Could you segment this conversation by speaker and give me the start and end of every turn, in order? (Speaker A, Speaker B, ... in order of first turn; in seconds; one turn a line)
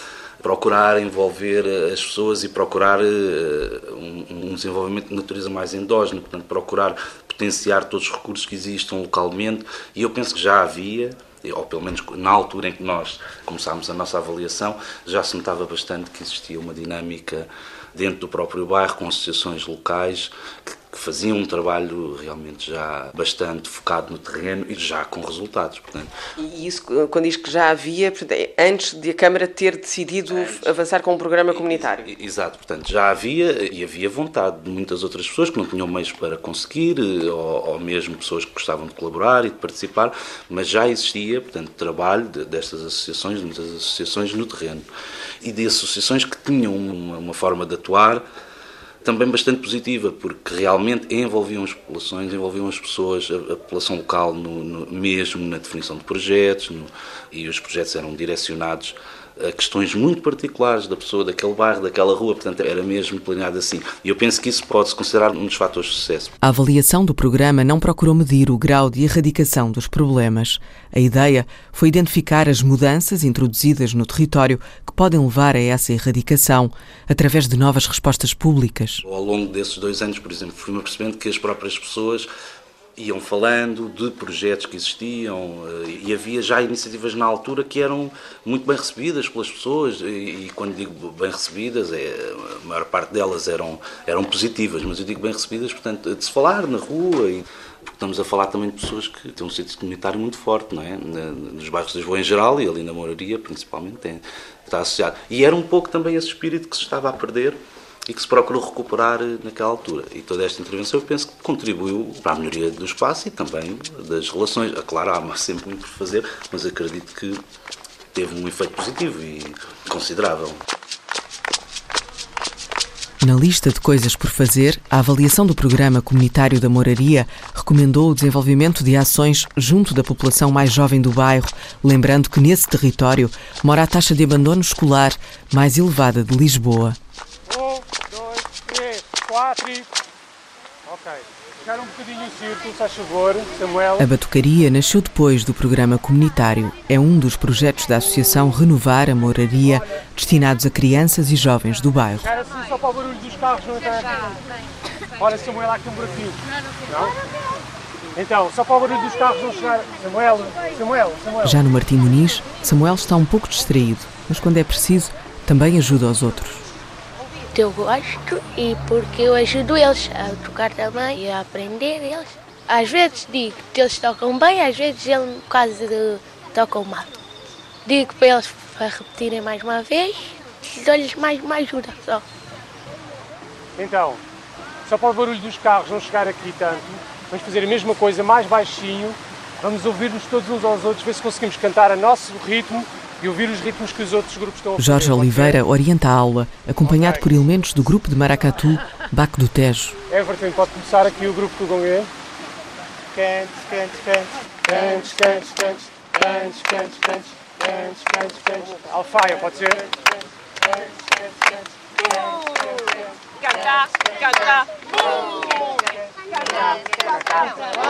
Speaker A: 0.4-26.1
Speaker B: 26.4-32.1
Speaker A: 30.3-30.7
Speaker A: 31.5-44.8
Speaker A: 45.4-48.2
Speaker A: 49.0-66.3
Speaker C: 66.4-79.0
Speaker A: 79.0-82.3
Speaker A: 83.0-117.4
Speaker A: 118.1-120.6
Speaker C: 123.2-137.0
Speaker D: 137.5-139.9
Speaker D: 140.8-144.1
Speaker C: 144.0-152.3
Speaker D: 152.2-154.4
Speaker D: 155.2-157.1
Speaker D: 158.1-161.6
Speaker C: 161.4-166.7
Speaker E: 167.5-177.1
Speaker E: 177.8-182.2
Speaker D: 183.8-184.2
Speaker D: 184.8-195.6
Speaker C: 194.8-200.0
Speaker D: 196.8-197.2
Speaker D: 200.1-202.1
Speaker D: 203.1-209.8